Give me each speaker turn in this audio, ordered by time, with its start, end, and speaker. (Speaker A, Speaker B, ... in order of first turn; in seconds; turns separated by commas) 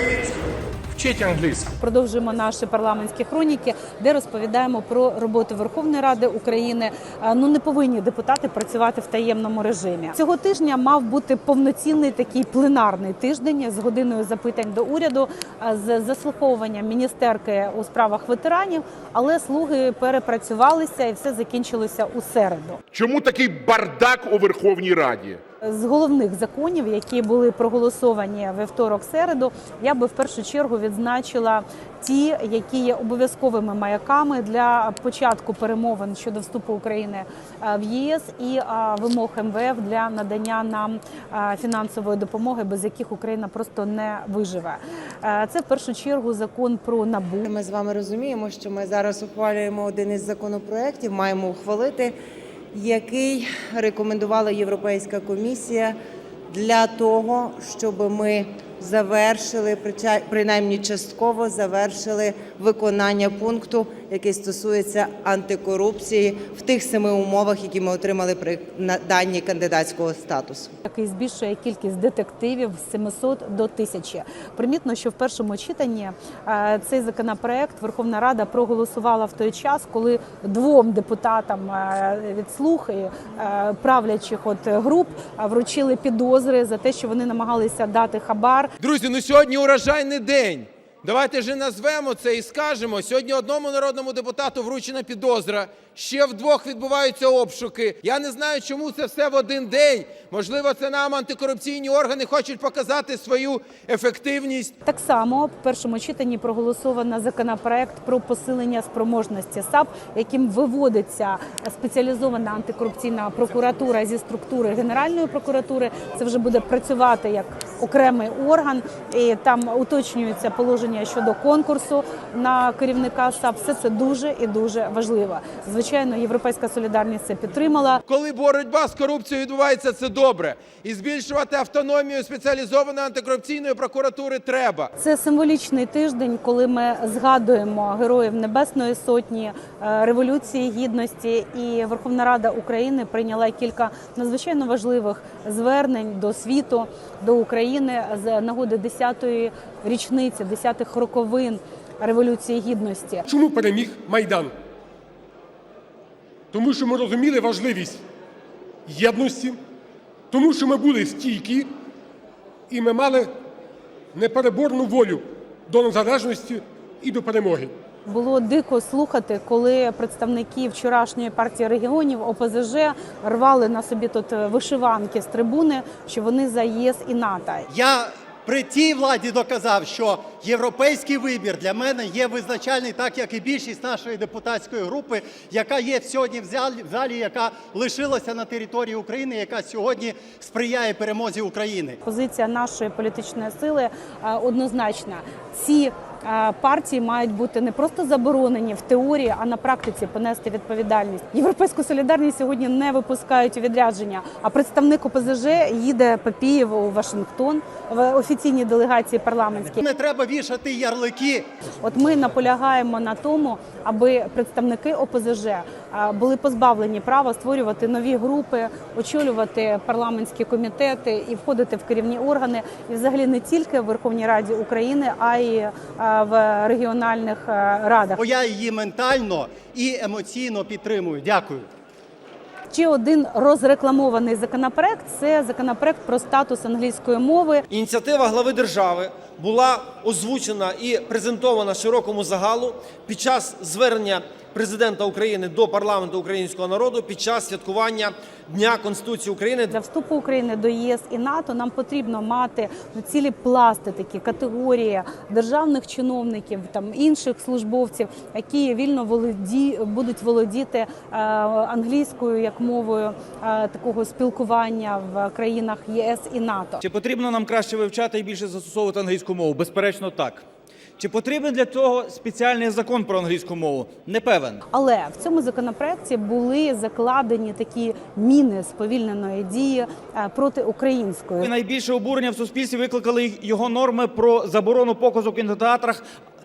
Speaker A: 0.9-1.7, Speaker B: 1.8-22.8, Speaker C: 22.9-25.4, Speaker B: 25.6-47.5, Speaker D: 47.5-52.1, Speaker D: 52.7-56.0, Speaker D: 56.5-70.7, Speaker B: 70.9-88.7, Speaker E: 88.8-104.7, Speaker B: 104.8-128.0, Speaker E: 128.1-134.9, Speaker B: 135.0-153.2, Speaker F: 153.3-154.5, Speaker F: 156.5-158.0, Speaker F: 158.9-159.6, Speaker F: 160.3-161.7, Speaker F: 162.7-163.3, Speaker F: 164.1-167.7, Speaker B: 168.1-177.7, Speaker G: 177.7-192.0, Speaker B: 192.1-209.8, Speaker G: 209.8-211.5, Speaker B: 211.8-228.2, Speaker G: 228.2-231.7, Speaker B: 232.7-237.6, Speaker H: 237.7-249.8, Speaker B: 249.7-266.8, Speaker A: 266.8-270.4, Speaker A: 271.0-274.6, Speaker B: 274.7-281.5, Speaker A: 281.4-286.1